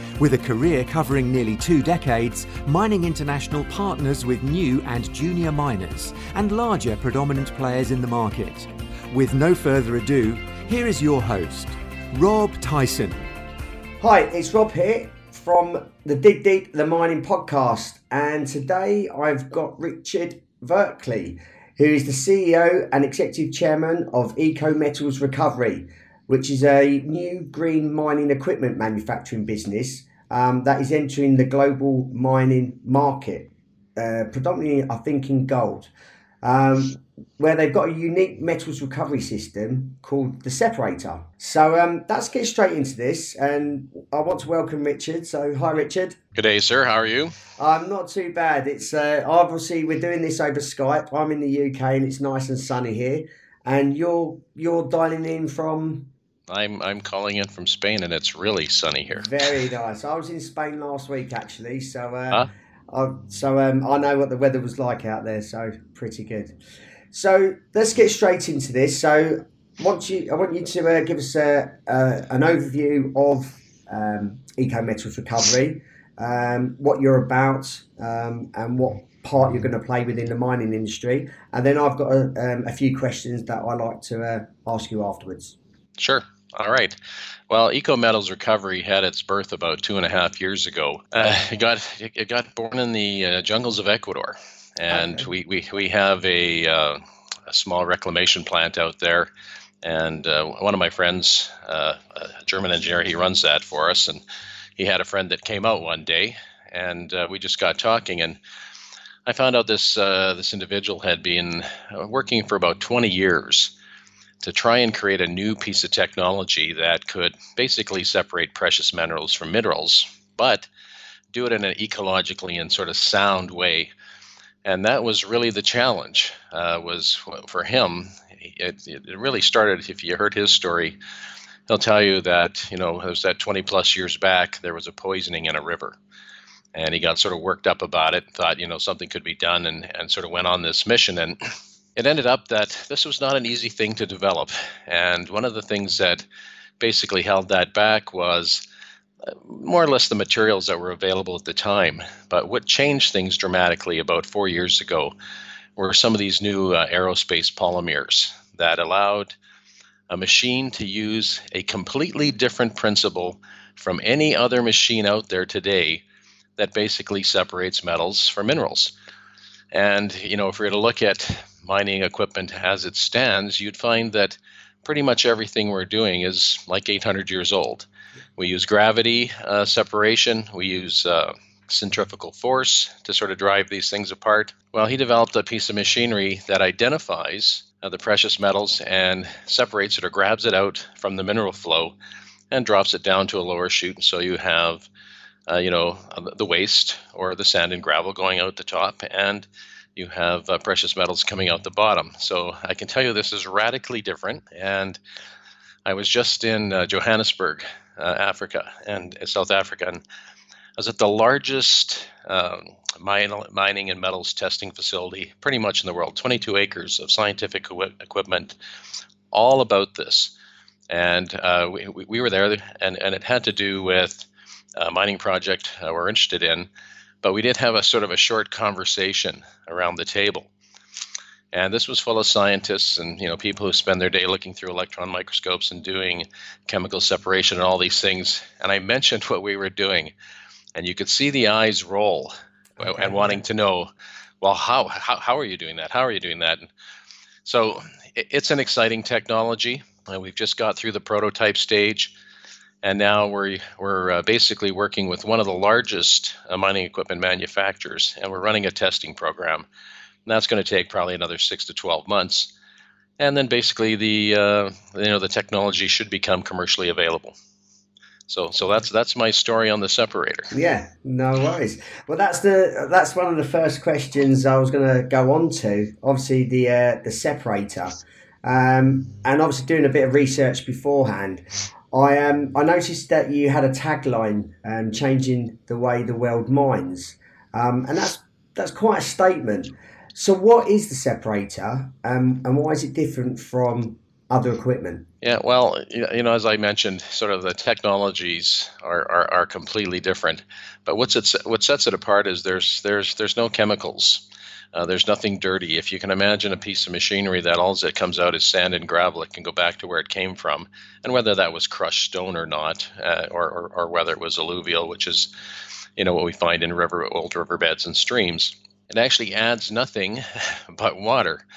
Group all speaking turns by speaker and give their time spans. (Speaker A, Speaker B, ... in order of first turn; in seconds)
Speaker A: 0.2-13.3
Speaker B: 14.0-35.9, 36.4-46.2, 47.6-56.1, 59.1-66.6, 67.1-85.5, 94.9-95.3, 242.8-243.4, 270.5-295.1
Speaker C: 46.4-47.4, 56.5-59.3, 86.0-87.0, 87.5-99.3, 99.8-104.2, 104.8-108.4, 109.3-113.7, 114.4-120.7, 121.3-123.9, 124.7-131.0, 131.7-136.0, 136.8-141.4, 142.0-146.2, 146.8-148.6, 149.3-155.1, 155.8-159.4, 160.1-166.0, 166.6-168.9, 169.7-191.9, 192.5-194.9, 195.5-205.0, 205.9-210.0, 210.8-218.6, 219.3-220.3, 220.9-226.7, 227.2-230.5, 231.5-240.1, 240.8-243.9, 244.4-246.7, 247.4-252.1, 252.8-259.7, 260.3-262.5, 263.2-267.4, 268.3-270.5, 295.2-315.3, 316.0-321.4